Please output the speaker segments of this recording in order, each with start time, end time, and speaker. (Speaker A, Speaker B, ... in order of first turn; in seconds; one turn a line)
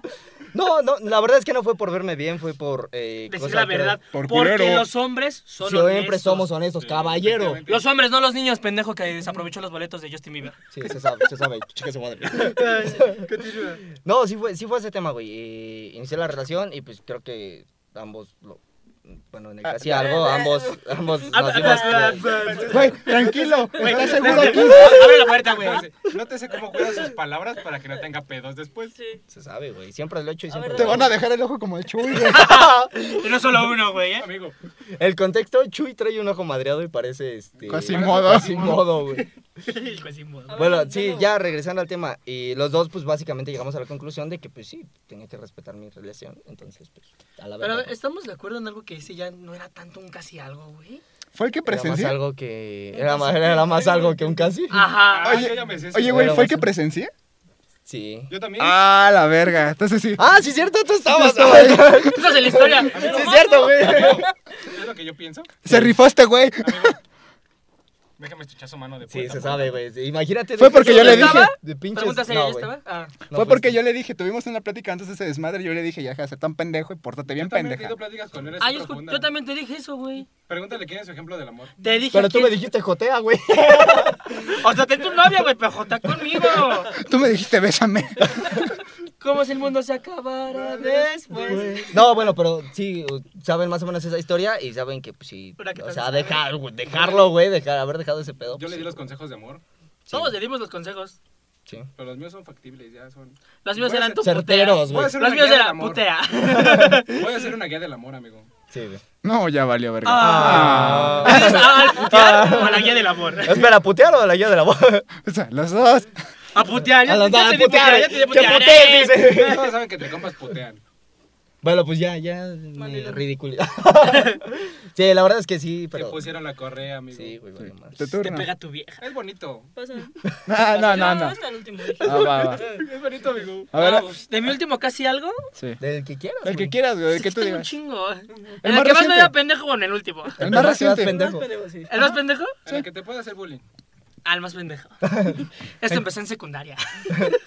Speaker A: 0.5-4.0
Speaker B: 3.3-6.5
Speaker C: 4.1-4.9
Speaker A: 5.6-7.6
Speaker D: 6.8-7.9
Speaker B: 7.7-10.6
Speaker A: 10.7-13.3
Speaker B: 12.5-13.7
Speaker D: 13.3-13.8
Speaker A: 13.9-22.9
Speaker E: 19.9-20.8
Speaker B: 21.3-22.9
Speaker E: 21.3-22.9
Speaker D: 22.2-23.1
Speaker C: 22.7-25.1
Speaker B: 23.8-25.8
Speaker D: 23.8-28.9
Speaker E: 28.9-29.2
Speaker A: 29.3-31.1
Speaker E: 30.5-31.1
Speaker C: 30.7-32.7
Speaker B: 32.1-34.3
Speaker A: 32.3-32.9
Speaker D: 34.2-34.5
Speaker A: 35.0-39.3
Speaker C: 37.6-38.8
Speaker D: 37.8-39.0
Speaker B: 39.6-40.7
Speaker E: 40.5-41.3
Speaker A: 40.5-47.9
Speaker B: 47.6-51.0
Speaker C: 51.3-52.2
Speaker A: 51.6-54.9
Speaker E: 52.9-54.3
Speaker B: 54.7-55.4
Speaker D: 55.1-56.4
Speaker C: 55.2-57.1
Speaker A: 56.0-56.7
Speaker A: 57.9-58.3
Speaker D: 58.3-58.7
Speaker C: 58.6-60.2
Speaker A: 60.2-64.3
Speaker C: 61.1-62.1
Speaker B: 62.0-64.0
Speaker D: 62.9-65.5
Speaker C: 65.6-67.0
Speaker A: 65.7-65.9
Speaker D: 66.6-67.0
Speaker D: 68.2-69.8
Speaker A: 69.1-72.7
Speaker C: 70.6-71.5
Speaker B: 70.7-73.1
Speaker A: 73.3-73.8
Speaker C: 73.3-78.0
Speaker D: 77.3-79.3
Speaker B: 78.6-80.3
Speaker D: 80.5-81.7
Speaker B: 81.8-82.6
Speaker A: 82.1-84.5
Speaker B: 84.4-86.9
Speaker C: 86.9-88.7
Speaker B: 89.2-91.9
Speaker A: 90.8-99.0
Speaker D: 90.8-91.8
Speaker B: 95.6-96.4
Speaker D: 96.9-97.2
Speaker D: 98.5-99.6
Speaker A: 100.0-100.3
Speaker B: 100.1-101.2
Speaker D: 102.0-104.2
Speaker B: 103.6-107.3
Speaker A: 104.2-105.2
Speaker D: 104.8-106.0
Speaker A: 106.5-107.0
Speaker D: 106.8-108.5
Speaker A: 108.7-109.0
Speaker C: 109.2-111.6
Speaker B: 110.0-113.7
Speaker A: 110.1-115.0
Speaker C: 115.2-116.1
Speaker B: 116.5-119.6
Speaker A: 116.8-119.8
Speaker D: 119.3-120.8
Speaker A: 121.6-126.3
Speaker E: 122.8-123.2
Speaker D: 125.9-127.4
Speaker A: 127.1-128.1
Speaker C: 127.6-128.5
Speaker B: 128.2-129.0
Speaker D: 129.0-129.7
Speaker E: 129.8-130.2
Speaker C: 130.4-131.4
Speaker E: 130.7-132.7
Speaker C: 132.0-132.6
Speaker D: 132.2-133.7
Speaker C: 133.7-134.1
Speaker B: 133.7-135.5
Speaker A: 135.8-136.8
Speaker C: 136.4-137.7
Speaker B: 137.1-140.4
Speaker C: 138.6-139.3
Speaker C: 140.4-141.2
Speaker A: 140.4-141.4
Speaker E: 140.9-142.1
Speaker B: 141.9-142.5
Speaker D: 142.7-143.6
Speaker B: 144.2-147.3
Speaker A: 145.0-145.4